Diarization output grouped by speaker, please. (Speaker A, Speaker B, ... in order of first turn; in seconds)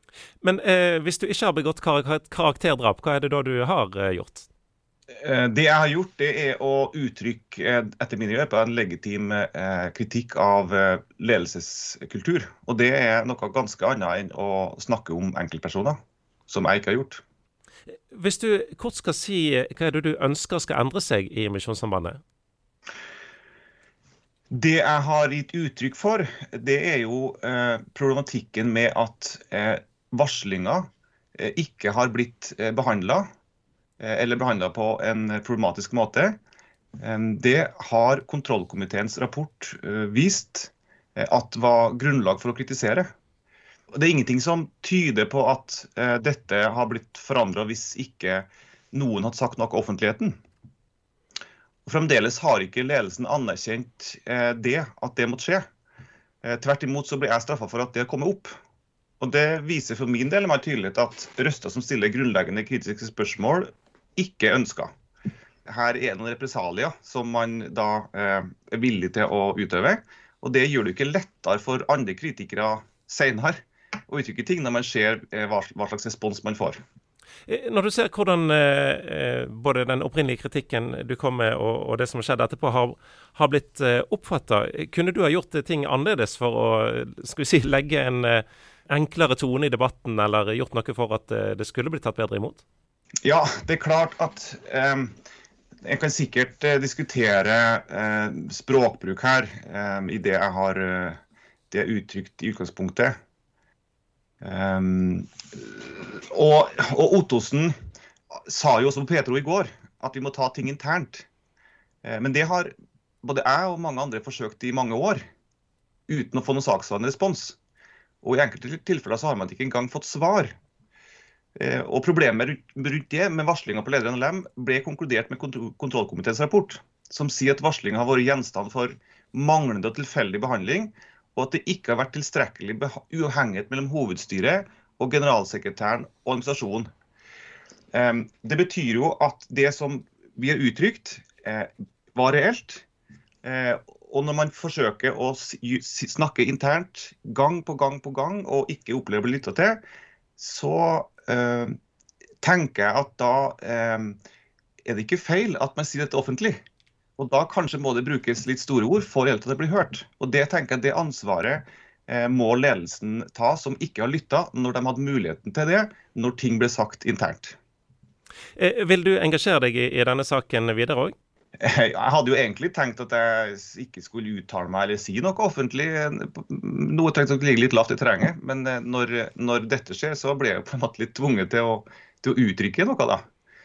Speaker A: 0.4-4.5, 18.1-22.2, 77.5-92.6, 168.6-171.2
Speaker B: 5.2-17.2, 24.5-30.8, 31.4-33.2, 34.0-36.4, 37.0-43.1, 44.0-50.4, 51.9-55.6, 56.4-58.5, 59.2-64.9, 65.7-73.6, 74.1-76.8, 93.2-95.1, 95.8-101.2, 101.7-103.2, 104.4-107.7, 108.4-111.3, 112.0-112.7, 113.2-115.2, 116.1-117.6, 118.2-120.5, 121.6-136.9, 137.9-142.8, 143.4-149.8, 150.4-151.8, 152.4-154.2, 154.8-156.6, 157.2-167.6, 171.6-183.2